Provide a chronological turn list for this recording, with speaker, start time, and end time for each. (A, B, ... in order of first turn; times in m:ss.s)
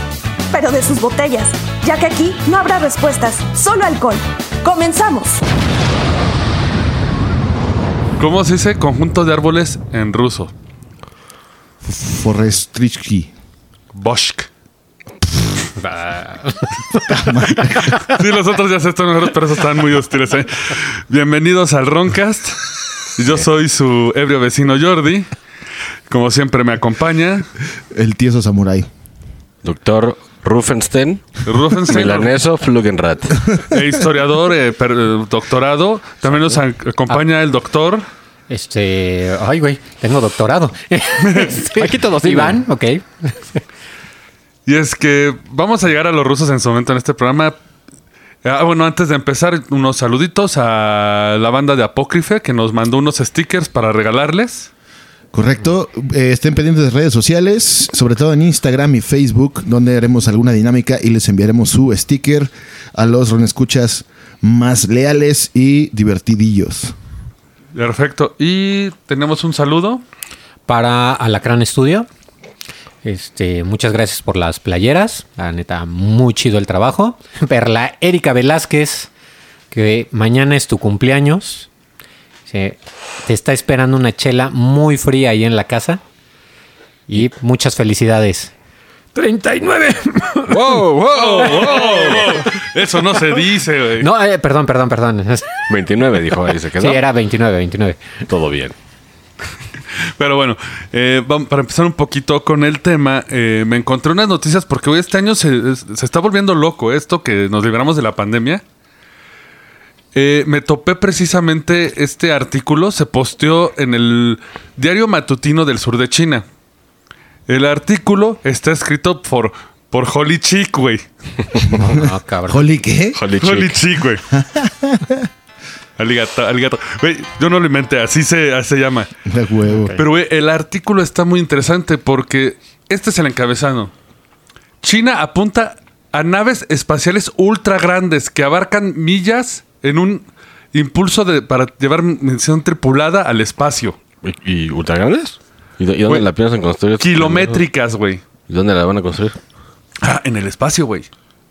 0:00.5-0:05.4 A
0:08.2-0:10.5 B
0:11.8-0:13.3 C
0:13.9-0:14.5 B
0:15.8-0:17.3 D
0:17.1-0:18.0 C
0:17.5-0:25.3 B
0:26.1-0:27.5 B
0:27.9-0:28.9 C
0:29.6-0:33.5 E
0:31.4-0:32.3 B
0:33.6-0:38.0 B
0:38.5-0:43.6 D
0:41.2-0:41.5 B
0:41.7-0:42.6 E
0:44.6-0:47.6 B
0:48.4-0:54.7 B
0:55.3-1:06.9 C
1:07.7-1:10.0 B
1:10.7-1:12.1 D
1:13.0-1:19.1 D
1:19.7-1:21.7 D
1:22.5-1:26.0 D
1:27.1-1:28.5 D
1:29.1-1:32.5 D
1:30.5-1:32.2 E
1:31.1-1:34.1 B
1:34.0-1:35.6 D
1:35.7-1:37.0 E
1:36.8-1:38.1 D
1:38.3-1:38.7 E
1:40.2-1:48.6 B
1:50.1-1:56.4 B
1:57.5-2:01.0 B
2:01.6-2:02.7 D
2:01.7-2:03.2 C
2:03.1-2:03.8 E
2:03.4-2:04.2 B
2:04.3-2:05.3 C
2:06.0-2:09.1 B
2:09.2-2:10.0 C
2:09.7-2:10.0 D
2:10.0-2:13.9 B
2:14.8-2:24.0 B
2:24.2-2:27.6 E
2:27.0-2:28.2 B
2:28.5-2:29.4 E
2:30.0-2:31.1 B